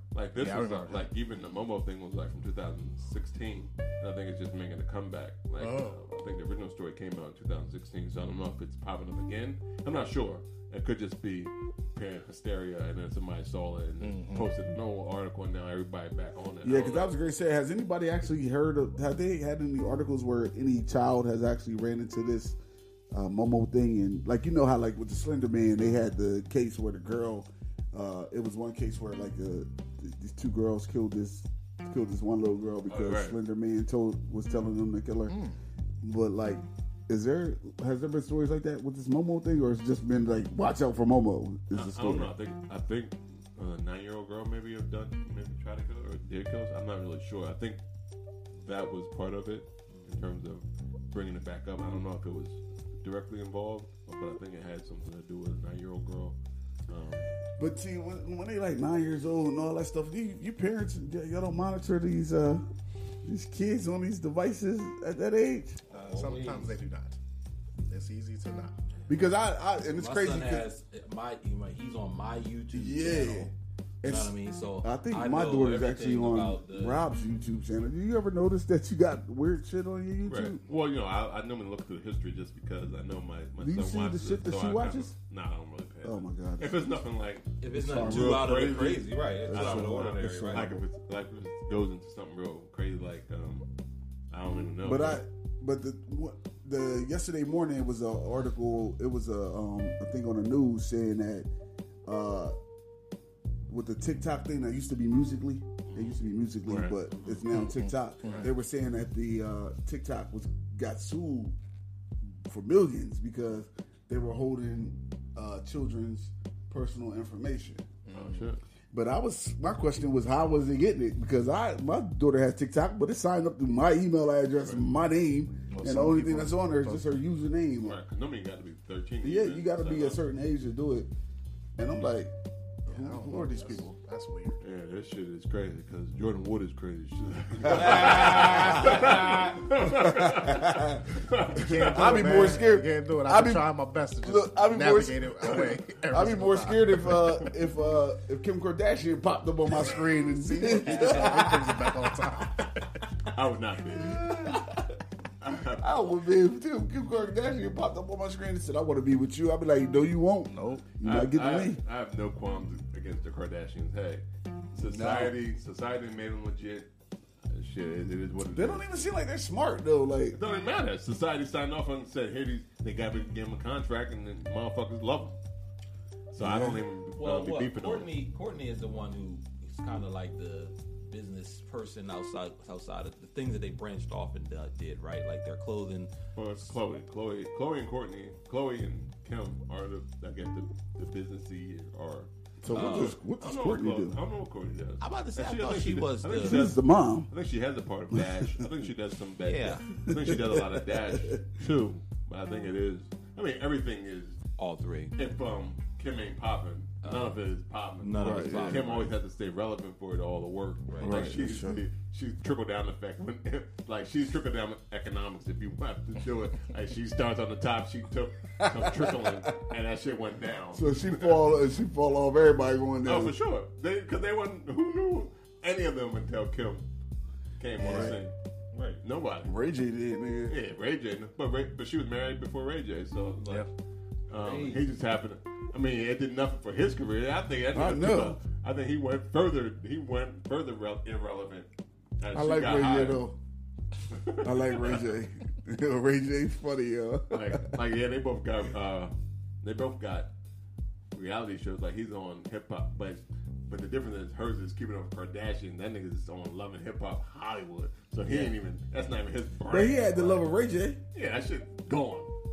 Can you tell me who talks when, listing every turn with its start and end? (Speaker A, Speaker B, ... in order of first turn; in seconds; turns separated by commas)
Speaker A: 0.1-17.1, Speaker B: 0.3-1.1, Speaker B: 5.6-6.0, Speaker B: 14.0-14.5, Speaker C: 16.6-22.6, Speaker C: 23.1-35.4, Speaker A: 32.9-33.4, Speaker B: 35.3-35.6, Speaker C: 36.0-42.3, Speaker A: 41.7-47.8, Speaker A: 48.5-56.3, Speaker A: 56.9-57.3, Speaker C: 57.6-62.6, Speaker C: 63.2-65.8, Speaker D: 65.9-66.8, Speaker B: 65.9-67.2, Speaker B: 67.9-68.8, Speaker C: 69.1-70.7, Speaker D: 69.9-73.5, Speaker C: 72.7-80.6, Speaker D: 74.0-77.0, Speaker A: 80.2-93.7, Speaker C: 83.6-85.1, Speaker C: 86.0-86.8, Speaker D: 87.6-90.7, Speaker C: 87.7-88.8, Speaker C: 89.4-90.8, Speaker A: 94.3-95.2, Speaker C: 94.8-101.5, Speaker C: 102.0-102.5, Speaker C: 103.7-111.5, Speaker A: 105.9-107.0, Speaker D: 107.1-107.4, Speaker B: 107.5-108.5, Speaker C: 112.4-117.8, Speaker B: 118.0-118.5, Speaker A: 118.1-118.6, Speaker C: 118.9-128.0, Speaker B: 125.7-127.0, Speaker A: 127.8-130.2, Speaker C: 129.2-131.1, Speaker C: 131.8-132.3, Speaker C: 132.8-133.9, Speaker B: 132.9-134.6, Speaker A: 134.6-142.6, Speaker D: 137.7-139.6, Speaker C: 137.7-139.1, Speaker C: 139.8-141.0, Speaker B: 141.5-147.3, Speaker C: 141.8-143.6, Speaker C: 144.2-152.1, Speaker B: 150.2-152.9, Speaker A: 153.3-154.6, Speaker C: 154.0-154.9, Speaker A: 155.4-156.2, Speaker C: 155.8-161.8, Speaker B: 160.5-160.8, Speaker A: 161.0-166.9, Speaker C: 164.8-165.3, Speaker A: 167.5-168.8, Speaker C: 168.5-170.4, Speaker A: 170.3-175.4, Speaker A: 176.3-178.1, Speaker C: 176.4-176.8, Speaker D: 177.2-186.1, Speaker A: 186.3-204.4, Speaker C: 192.6-194.2, Speaker D: 192.7-193.2, Speaker D: 195.0-196.7, Speaker C: 196.4-197.3, Speaker C: 198.1-198.7, Speaker D: 199.4-199.9, Speaker C: 200.0-201.4, Speaker D: 204.6-205.1, Speaker A: 205.2-221.4, Speaker D: 207.0-207.4, Speaker D: 208.0-209.1, Speaker C: 208.2-208.8, Speaker D: 210.9-211.3, Speaker C: 211.0-211.8, Speaker C: 218.6-219.5, Speaker C: 220.7-223.3, Speaker A: 223.0-226.8, Speaker A: 227.6-228.3, Speaker C: 227.8-228.2, Speaker D: 228.7-229.0, Speaker A: 229.0-229.5, Speaker C: 229.4-230.6, Speaker A: 230.5-233.7, Speaker B: 233.4-233.7, Speaker A: 234.3-241.7, Speaker D: 234.4-234.8, Speaker C: 237.7-238.4, Speaker A: 242.2-243.2, Speaker C: 242.3-243.3, Speaker A: 244.1-245.1, Speaker C: 244.4-247.7, Speaker A: 247.3-250.3, Speaker A: 251.1-260.5, Speaker C: 259.7-261.0, Speaker A: 261.1-262.3